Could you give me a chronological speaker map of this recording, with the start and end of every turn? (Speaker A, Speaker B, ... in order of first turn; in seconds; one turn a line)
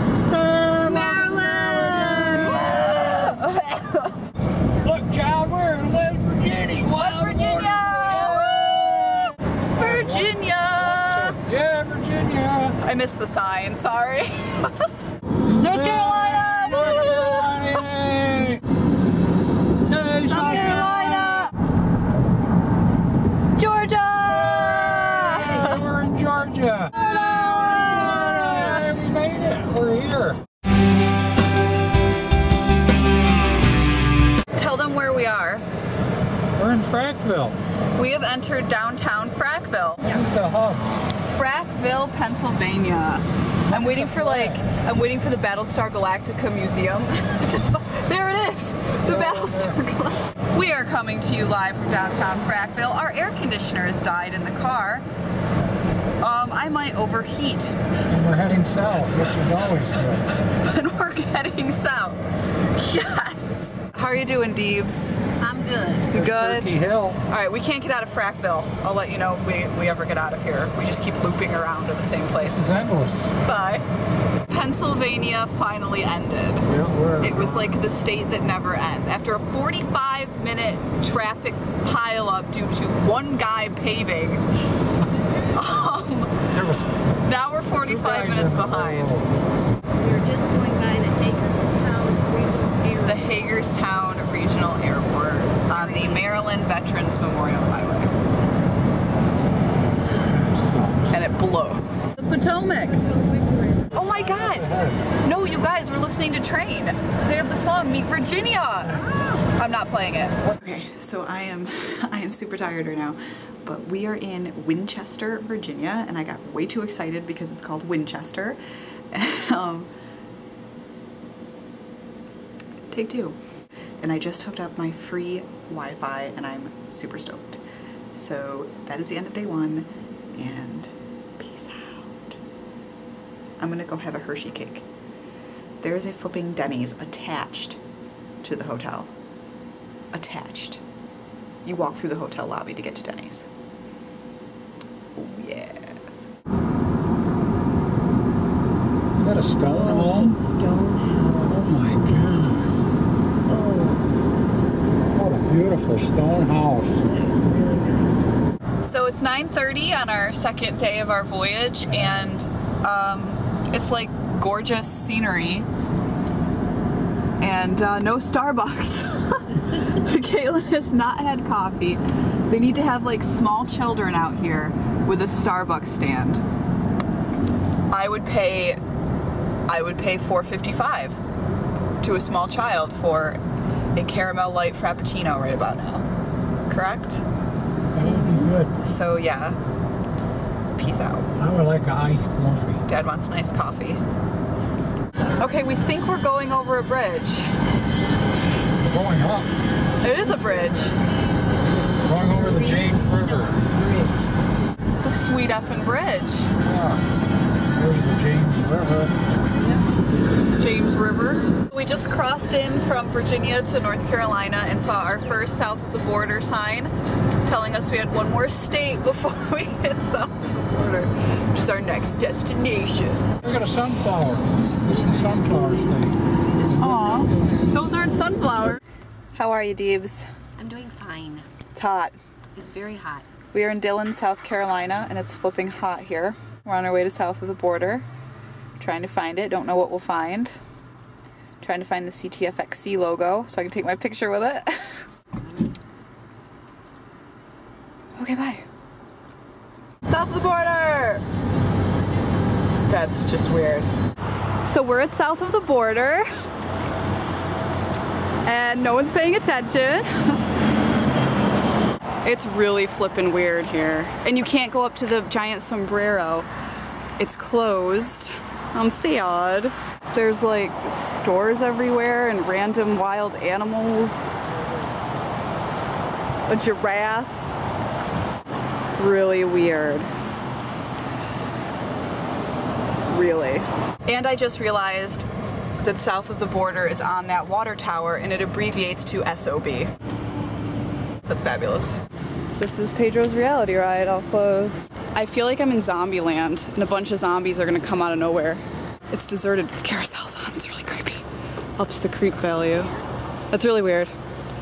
Speaker A: 0.3-3.4
Speaker B: 0.8-4.1
Speaker A: 4.8-12.8
Speaker B: 6.9-11.4
Speaker B: 12.8-14.9
Speaker B: 15.6-18.1
Speaker A: 15.6-18.6
Speaker A: 19.9-21.5
Speaker B: 20.2-21.5
Speaker B: 23.6-25.9
Speaker A: 24.3-30.4
Speaker B: 27.5-28.8
Speaker B: 34.6-35.6
Speaker A: 36.6-37.6
Speaker B: 38.0-40.2
Speaker A: 40.0-40.9
Speaker B: 41.2-55.0
Speaker A: 43.7-44.6
Speaker A: 48.9-49.8
Speaker B: 56.2-57.8
Speaker A: 58.1-60.3
Speaker B: 60.6-65.2
Speaker C: 65.4-66.1
Speaker B: 66.1-66.7
Speaker A: 66.1-67.2
Speaker B: 67.2-72.6
Speaker A: 72.4-73.3
Speaker B: 73.4-73.8
Speaker B: 74.5-76.7
Speaker A: 76.7-77.8
Speaker B: 77.2-84.4
Speaker B: 85.5-86.5
Speaker A: 85.7-87.0
Speaker B: 87.2-89.2
Speaker A: 87.7-89.4
Speaker C: 90.0-93.4
Speaker B: 93.0-98.1
Speaker C: 95.7-96.2
Speaker A: 100.1-101.1
Speaker B: 101.1-103.1
Speaker C: 102.8-104.2
Speaker B: 103.9-104.7
Speaker A: 104.1-105.1
Speaker B: 105.2-118.6
Speaker B: 119.1-119.9
Speaker B: 122.9-123.4
Speaker B: 124.0-127.6
Speaker B: 128.1-132.4
Speaker B: 133.6-134.9
Speaker B: 135.8-137.8
Speaker B: 138.4-139.1
Speaker B: 140.1-140.8
Speaker B: 141.7-143.5
Speaker B: 145.2-146.0
Speaker A: 149.2-150.4
Speaker C: 149.6-151.8
Speaker A: 151.5-152.8
Speaker C: 153.5-154.0
Speaker A: 155.1-157.0
Speaker C: 156.9-158.3
Speaker B: 158.8-165.7
Speaker A: 161.9-162.2
Speaker B: 167.4-176.4
Speaker B: 177.9-178.8
Speaker B: 179.7-181.2
Speaker B: 182.0-183.4
Speaker B: 183.9-186.1
Speaker B: 186.7-187.2
Speaker A: 187.9-188.8
Speaker C: 188.1-188.5
Speaker B: 188.8-189.6
Speaker B: 190.8-191.3
Speaker A: 191.4-192.8
Speaker B: 192.9-194.0
Speaker B: 195.4-197.5
Speaker A: 198.8-199.5
Speaker B: 200.0-200.9
Speaker A: 202.0-203.6
Speaker C: 202.1-204.2
Speaker B: 205.0-206.5
Speaker A: 206.6-207.0
Speaker A: 207.7-209.2
Speaker B: 210.6-216.9
Speaker B: 217.4-223.2
Speaker A: 223.4-226.2
Speaker B: 226.8-228.8
Speaker B: 229.4-230.3
Speaker C: 230.6-231.5
Speaker B: 231.8-232.2
Speaker C: 232.6-233.3
Speaker B: 233.5-238.1
Speaker B: 238.8-240.6
Speaker B: 241.6-245.1
Speaker B: 248.2-248.6
Speaker B: 250.1-251.2
Speaker B: 252.9-253.9
Speaker B: 254.6-256.3
Speaker B: 258.4-260.3
Speaker B: 262.2-266.5
Speaker B: 267.2-274.4
Speaker B: 276.5-277.3
Speaker B: 279.0-280.1
Speaker B: 283.1-285.3
Speaker B: 285.8-289.9
Speaker B: 291.3-292.0
Speaker B: 292.6-301.2
Speaker B: 301.8-302.9
Speaker B: 303.5-304.1